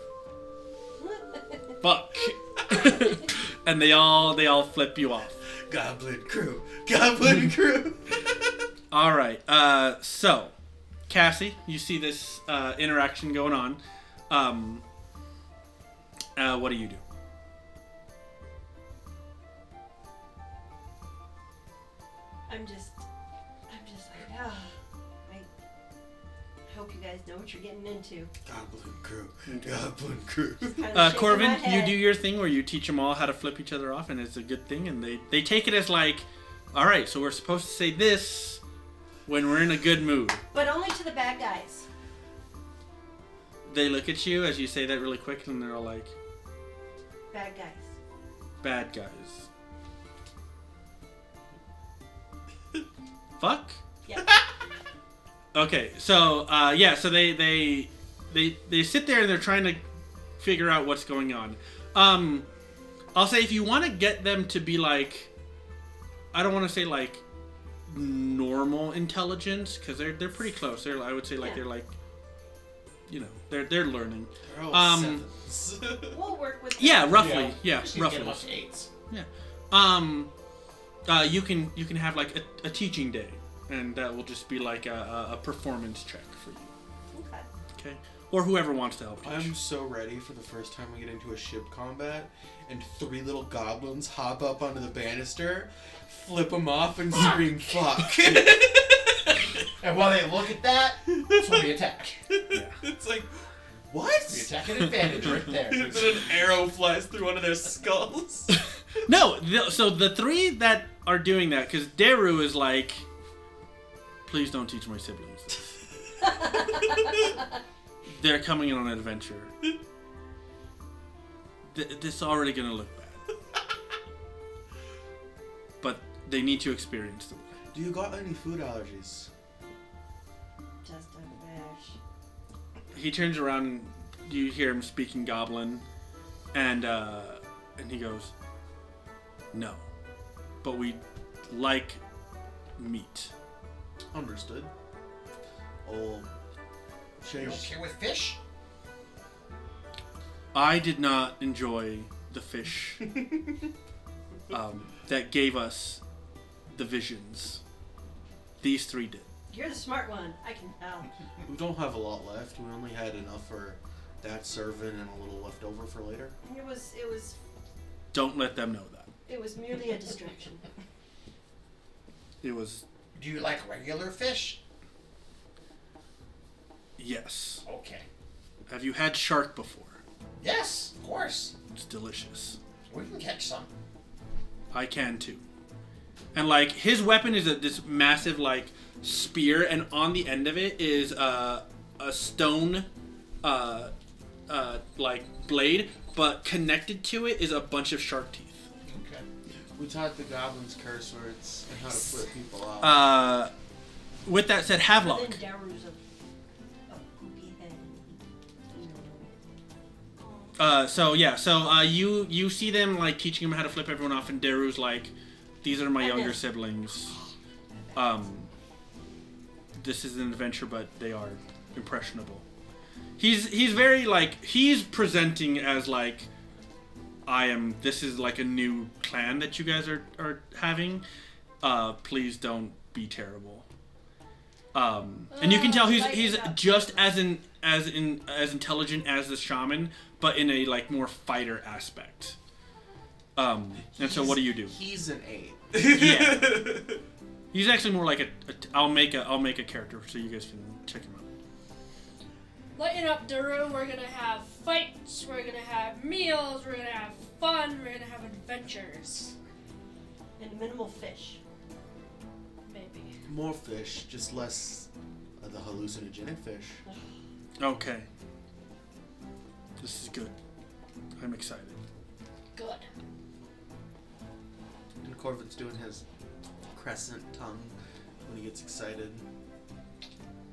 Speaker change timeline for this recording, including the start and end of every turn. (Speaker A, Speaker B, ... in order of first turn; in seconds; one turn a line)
Speaker A: 1.0-1.8
Speaker B: 1.8-5.4
Speaker C: 5.7-8.5
Speaker B: 8.9-10.5
Speaker B: 11.1-14.8
Speaker B: 16.4-17.0
Speaker A: 22.5-23.1
Speaker A: 23.7-24.7
Speaker A: 26.7-28.3
Speaker C: 28.4-30.9
Speaker B: 29.5-29.8
Speaker A: 30.7-32.0
Speaker B: 30.9-38.6
Speaker B: 39.3-40.4
Speaker A: 40.5-41.9
Speaker B: 43.6-46.1
Speaker A: 47.3-48.0
Speaker B: 48.6-49.5
Speaker B: 53.4-53.8
Speaker A: 54.0-54.3
Speaker B: 55.5-59.8
Speaker B: 60.4-62.5
Speaker B: 63.1-65.3
Speaker B: 66.3-67.2
Speaker B: 67.9-71.9
Speaker B: 73.1-75.3
Speaker C: 74.5-76.2
Speaker A: 76.1-77.5
Speaker B: 76.8-78.5
Speaker D: 77.1-78.9
Speaker B: 79.1-80.3
Speaker B: 81.0-86.7
Speaker A: 87.1-87.5
Speaker B: 87.8-89.5
Speaker C: 89.2-99.7
Speaker D: 99.8-102.2
Speaker C: 101.1-101.7
Speaker C: 102.3-103.3
Speaker B: 102.5-102.8
Speaker C: 103.9-108.6
Speaker D: 104.2-106.4
Speaker B: 109.0-113.0
Speaker B: 114.2-115.7
Speaker A: 116.2-117.3
Speaker B: 118.1-119.5
Speaker B: 121.7-123.2
Speaker B: 125.8-127.5
Speaker C: 127.7-129.3
Speaker A: 130.8-132.0
Speaker B: 132.9-135.8
Speaker B: 136.5-138.3
Speaker B: 139.5-139.8
Speaker B: 140.6-142.0
Speaker B: 142.8-143.3
Speaker C: 144.1-144.7
Speaker C: 145.8-146.3
Speaker C: 147.2-147.7
Speaker D: 147.3-148.4
Speaker B: 150.5-153.1
Speaker B: 154.5-156.0
Speaker B: 156.7-157.6
Speaker B: 158.6-159.2
Speaker A: 159.5-161.1
Speaker C: 161.4-166.3
Speaker A: 166.4-167.4
Speaker B: 168.1-169.1
Speaker A: 169.3-170.7
Speaker B: 172.4-172.8
Speaker D: 173.1-174.6
Speaker B: 177.0-177.6
Speaker D: 177.6-178.1
Speaker B: 178.7-180.0
Speaker D: 180.4-181.5
Speaker B: 181.7-182.6
Speaker D: 182.9-183.7
Speaker B: 184.7-185.4
Speaker B: 186.3-192.9
Speaker B: 193.4-193.9
Speaker B: 194.5-198.7
Speaker D: 198.8-199.2
Speaker C: 199.8-203.1
Speaker B: 202.8-203.5
Speaker B: 204.2-205.4
Speaker A: 205.0-206.0
Speaker A: 206.9-209.3
Speaker E: 210.2-210.6
Speaker B: 210.6-215.1
Speaker B: 215.6-217.1
Speaker A: 216.0-216.4
Speaker A: 217.7-218.1
Speaker B: 217.9-218.5
Speaker B: 219.8-222.4
Speaker B: 223.2-226.3
Speaker B: 227.2-231.0
Speaker B: 231.6-233.6
Speaker B: 234.7-242.4
Speaker E: 235.3-236.1
Speaker A: 235.4-237.0
Speaker B: 243.3-244.8
Speaker C: 243.9-247.0
Speaker B: 245.8-246.7
Speaker B: 247.5-251.3
Speaker E: 252.7-259.3
Speaker A: 260.4-261.4
Speaker E: 262.6-263.1
Speaker C: 263.2-264.9
Speaker C: 265.4-266.8
Speaker B: 267.6-268.1
Speaker B: 269.8-270.3
Speaker B: 271.2-271.8
Speaker E: 272.5-272.9
Speaker C: 275.0-276.0
Speaker C: 276.7-277.7
Speaker C: 278.2-279.2